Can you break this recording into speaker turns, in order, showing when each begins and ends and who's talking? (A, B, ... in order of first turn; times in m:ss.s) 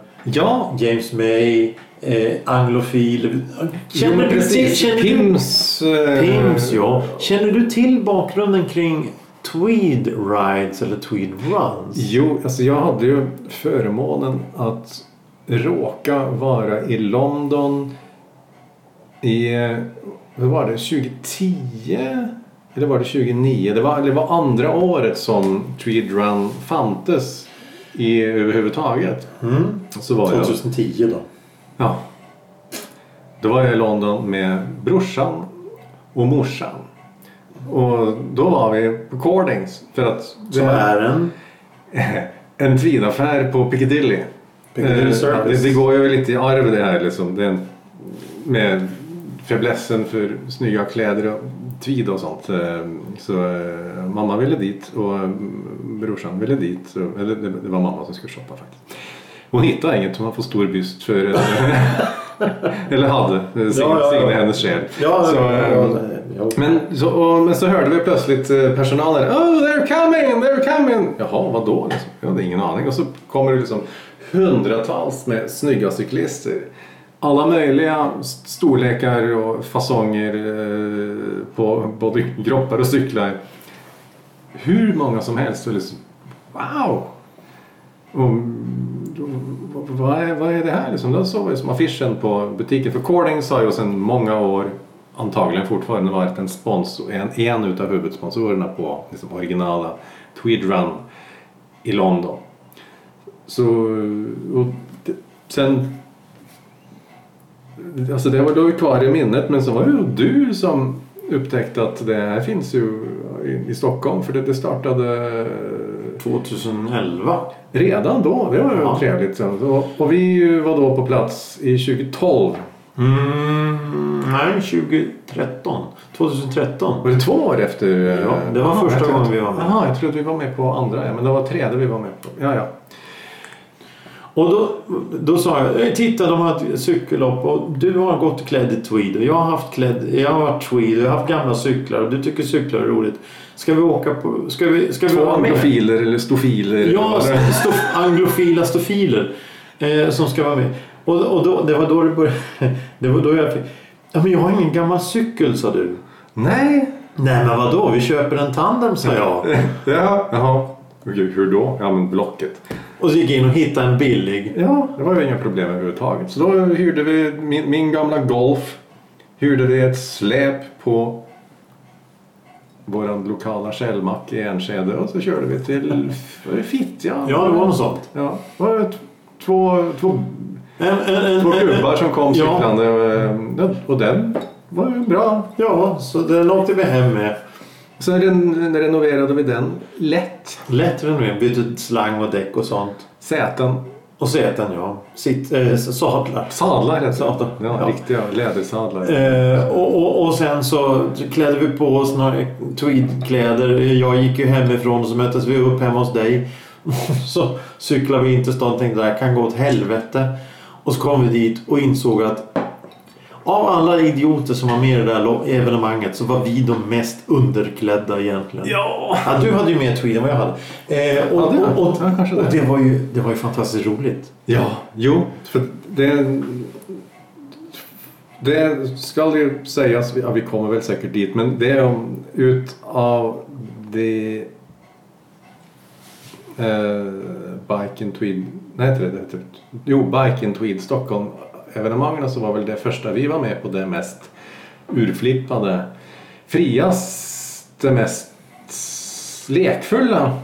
0:00.2-0:00.7 A
0:00.7-0:05.4 B
0:03.9-0:07.2 A
0:06.1-0:12.0 B
0:11.9-0:17.9 A
0:19.2-0:29.3 A
0:29.4-0:31.2 B
0:29.9-0:30.6 A
0:33.4-0:35.5 A
0:36.1-0:36.9 A
0:37.6-0:40.9 A
0:40.5-0:41.3 B
0:41.9-0:58.8 A
0:44.7-0:45.8 B
0:59.5-1:06.0 A
1:03.7-1:06.6 B
1:06.5-1:16.7 A
1:17.2-1:23.4 A
1:24.5-1:27.1 A
1:28.1-1:41.0 A
1:41.8-1:42.4 A
1:43.4-1:45.9 A
1:47.8-1:56.2 A
1:56.2-1:57.5 B
1:57.7-2:02.6 A
1:58.7-1:59.0 B
2:03.0-2:07.1 B
2:07.0-2:12.8 A
2:08.0-2:09.8 B
2:14.3-2:25.7 B
2:25.1-2:27.9 A
2:26.8-2:36.0 B
2:36.3-2:36.9 A
2:37.2-2:39.7 B
2:39.4-2:42.6 A
2:43.0-2:44.5 B
2:44.5-2:48.8 A
2:49.4-2:51.2 A
2:52.8-3:00.6 A
2:57.2-2:58.1 B
3:00.8-3:02.7 B
3:01.4-3:05.5 A
3:05.6-3:07.4 B
3:08.0-3:10.6 A
3:10.6-3:13.1 B
3:13.2-3:13.8 A
3:14.2-3:16.6 B
3:16.5-3:19.8 A
3:17.1-3:18.0 B
3:19.0-3:30.3 B
3:30.8-3:32.6 B
3:33.4-3:44.4 B
3:38.6-3:39.5 A
3:41.3-3:42.6 A
3:44.4-3:47.0 A
3:48.4-3:54.5 A
3:56.6-4:04.3 A
4:04.9-4:05.9 A
4:06.5-4:10.3 A